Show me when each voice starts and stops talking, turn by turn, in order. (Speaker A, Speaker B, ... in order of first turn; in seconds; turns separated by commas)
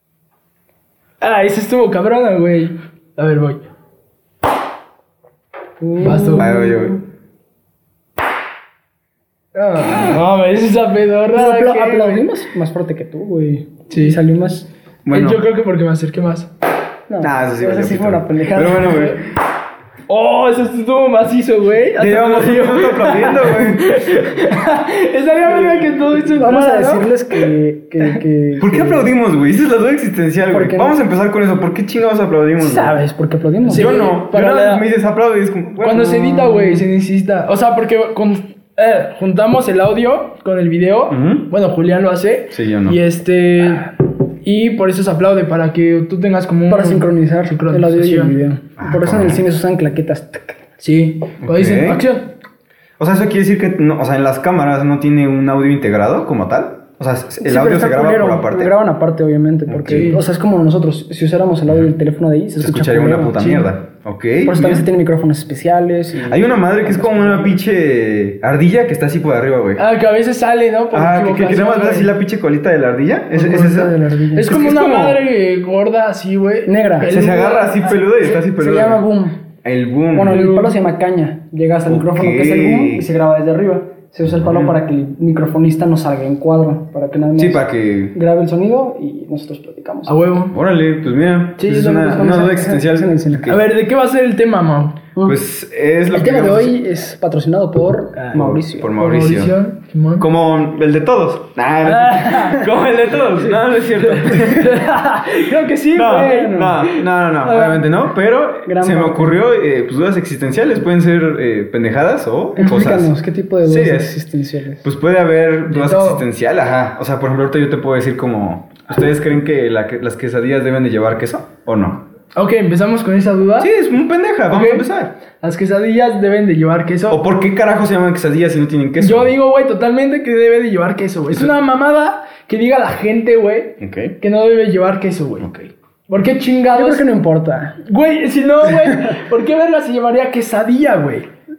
Speaker A: 1.2-3.6, Speaker B: 5.8-7.0, Speaker A: 6.0-6.5, Speaker C: 6.4-7.0, Speaker A: 9.5-12.2, Speaker B: 11.3-14.7, Speaker A: 13.9-14.2, Speaker C: 15.1-15.4, Speaker A: 15.1-16.5, Speaker B: 17.1-19.1, Speaker C: 17.2-19.2, Speaker A: 20.1-27.4, Speaker C: 22.0-24.0, Speaker B: 26.3-29.1, Speaker C: 28.6-32.9, Speaker B: 30.5-31.0, Speaker B: 32.6-34.0, Speaker A: 33.7-34.8, Speaker C: 33.7-36.1, Speaker A: 35.8-43.9, Speaker B: 36.0-36.8, Speaker C: 41.1-41.5, Speaker C: 42.5-43.0, Speaker A: 44.4-48.3, Speaker B: 46.7-50.6, Speaker C: 48.8-49.4, Speaker A: 50.8-52.3, Speaker C: 51.4-52.1, Speaker C: 53.0-58.8, Speaker B: 57.4-63.6, Speaker C: 59.7-60.1, Speaker A: 59.9-60.2, Speaker C: 62.6-64.9, Speaker A: 63.4-63.6, Speaker B: 64.4-67.5, Speaker C: 66.2-69.8, Speaker A: 69.8-72.1, Speaker C: 70.9-75.2, Speaker B: 73.3-74.5, Speaker A: 74.3-77.9, Speaker B: 76.7-77.1, Speaker C: 77.0-79.0, Speaker B: 78.3-79.5, Speaker C: 79.6-80.5, Speaker B: 80.1-90.2, Speaker A: 80.3-80.7, Speaker C: 81.9-83.1, Speaker C: 84.3-84.8, Speaker C: 87.3-88.1, Speaker A: 90.0-90.5, Speaker C: 90.5-93.6, Speaker A: 91.6-92.1, Speaker B: 91.7-93.5, Speaker A: 93.5-95.0, Speaker C: 95.2-96.7, Speaker B: 96.1-99.0, Speaker A: 98.2-98.4, Speaker C: 98.3-99.5, Speaker A: 99.0-100.3, Speaker C: 100.2-104.8, Speaker A: 101.8-102.7, Speaker A: 103.3-107.9, Speaker C: 105.9-114.1, Speaker B: 106.2-106.8, Speaker B: 108.7-109.5, Speaker B: 112.5-114.8, Speaker C: 114.8-122.0, Speaker A: 115.7-116.2, Speaker A: 122.3-123.7, Speaker C: 123.6-125.1, Speaker A: 124.5-127.2, Speaker C: 127.1-129.3, Speaker A: 129.0-135.5, Speaker C: 133.8-134.2, Speaker C: 135.4-135.7, Speaker A: 136.1-137.0, Speaker B: 136.7-137.8, Speaker A: 137.8-141.3, Speaker B: 138.7-139.2